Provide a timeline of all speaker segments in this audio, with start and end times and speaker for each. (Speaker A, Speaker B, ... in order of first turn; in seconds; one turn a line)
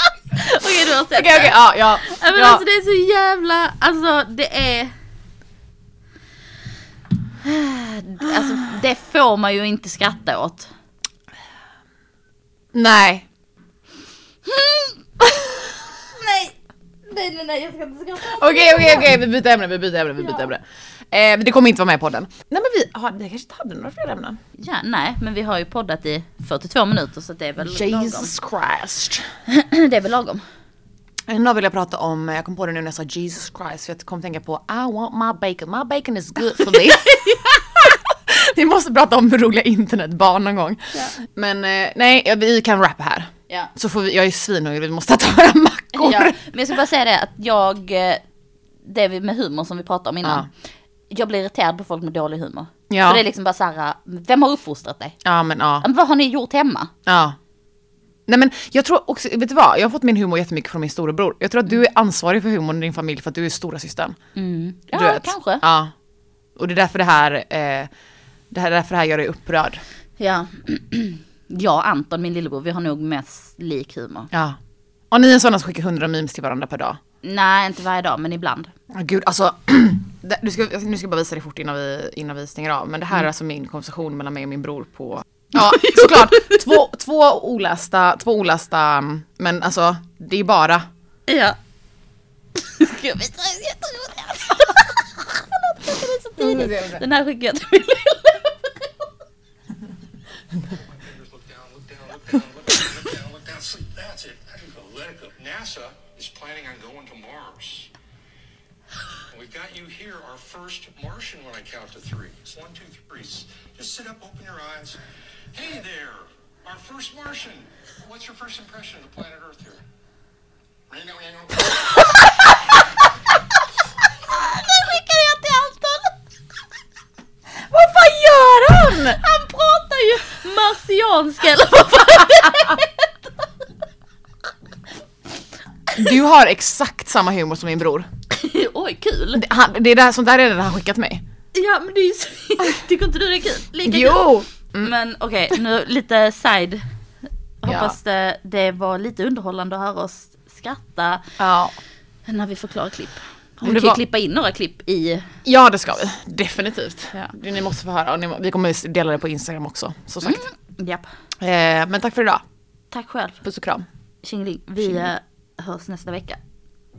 Speaker A: 0.3-4.9
Speaker B: 1.1-2.6
Speaker A: 7.4-10.7
Speaker B: 12.7-13.2
Speaker A: 14.5-16.6
Speaker A: 17.1-19.2
Speaker B: 18.2-24.4
Speaker A: 20.2-20.5
Speaker A: 24.6-28.3
Speaker B: 27.6-29.3
Speaker A: 29.5-30.4
Speaker B: 31.3-46.5
Speaker A: 46.0-48.2
Speaker A: 48.9-50.5
Speaker B: 50.2-50.5
Speaker A: 51.1-55.2
Speaker B: 52.9-53.2
Speaker B: 55.2-55.9
Speaker A: 55.8-56.9
Speaker B: 57.1-57.4
Speaker B: 58.3-64.2
Speaker A: 64.4-65.6
Speaker B: 64.9-65.9
Speaker B: 66.6-67.9
Speaker B: 68.5-69.8
Speaker A: 70.2-74.3
Speaker B: 74.3-74.6
Speaker B: 75.1-77.0
Speaker A: 77.2-78.7
Speaker B: 78.9-90.9
Speaker A: 85.7-86.6
Speaker A: 91.3-91.6
Speaker A: 92.5-98.9
Speaker B: 96.4-97.0
Speaker C: 101.0-107.9
Speaker C: 109.3-115.0
Speaker C: 115.5-119.8
Speaker C: 120.9-121.7
Speaker A: 124.2-126.2
Speaker B: 127.7-129.2
Speaker A: 129.1-133.1
Speaker B: 136.0-138.1
Speaker A: 138.3-139.4
Speaker B: 139.3-141.2
Speaker A: 141.5-146.8
Speaker B: 143.8-144.9
Speaker A: 147.6-151.3
Speaker B: 147.7-148.0
Speaker B: 151.4-151.8
Speaker A: 152.3-155.3
Speaker B: 153.6-154.0
Speaker B: 155.4-160.4
Speaker A: 160.2-161.1
Speaker B: 161.4-162.4
Speaker A: 162.9-163.4
Speaker B: 163.4-163.8
Speaker A: 164.2-166.4
Speaker B: 164.8-165.1